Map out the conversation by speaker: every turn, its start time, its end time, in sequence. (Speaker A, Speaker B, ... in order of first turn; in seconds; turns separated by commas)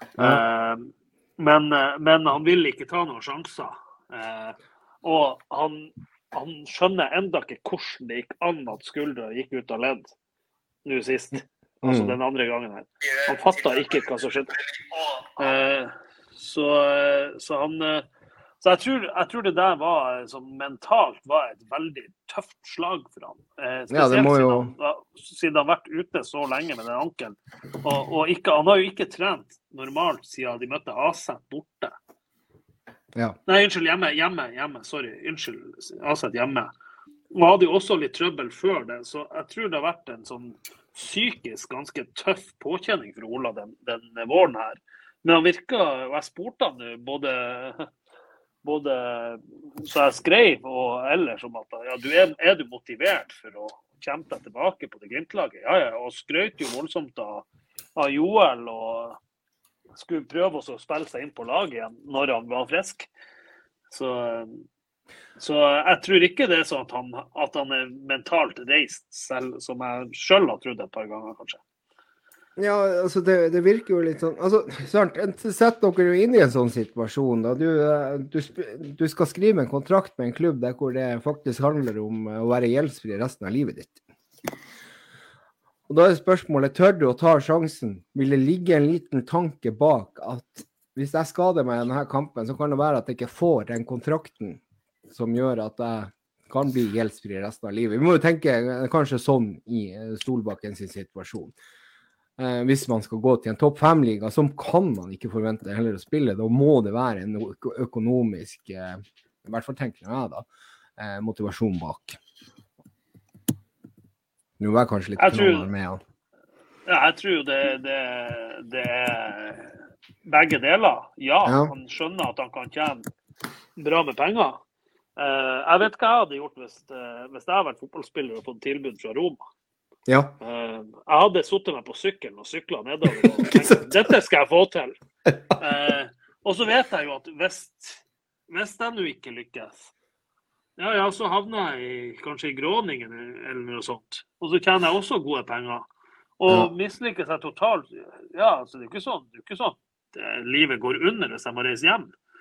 Speaker A: 0.2-0.4, Speaker B: 0.2-10.1, Speaker B: 10.8-18.1, Speaker A: 11.8-12.2, Speaker B: 18.6-32.0, Speaker A: 23.9-24.7, Speaker B: 33.5-36.7, Speaker B: 37.3-47.9, Speaker B: 48.6-59.2, Speaker B: 60.0-63.1, Speaker B: 63.9-64.7, Speaker B: 65.4-71.6, Speaker A: 72.6-84.0, Speaker A: 85.9-101.5, Speaker A: 102.4-110.5, Speaker A: 111.0-112.2, Speaker A: 114.6-116.0, Speaker B: 115.2-115.7, Speaker B: 116.9-123.1, Speaker A: 121.5-121.7, Speaker B: 123.8-124.6, Speaker B: 125.2-129.5, Speaker A: 130.1-130.3, Speaker B: 130.4-135.0, Speaker A: 133.5-133.8, Speaker B: 135.6-139.9, Speaker B: 140.8-145.9, Speaker B: 146.4-152.1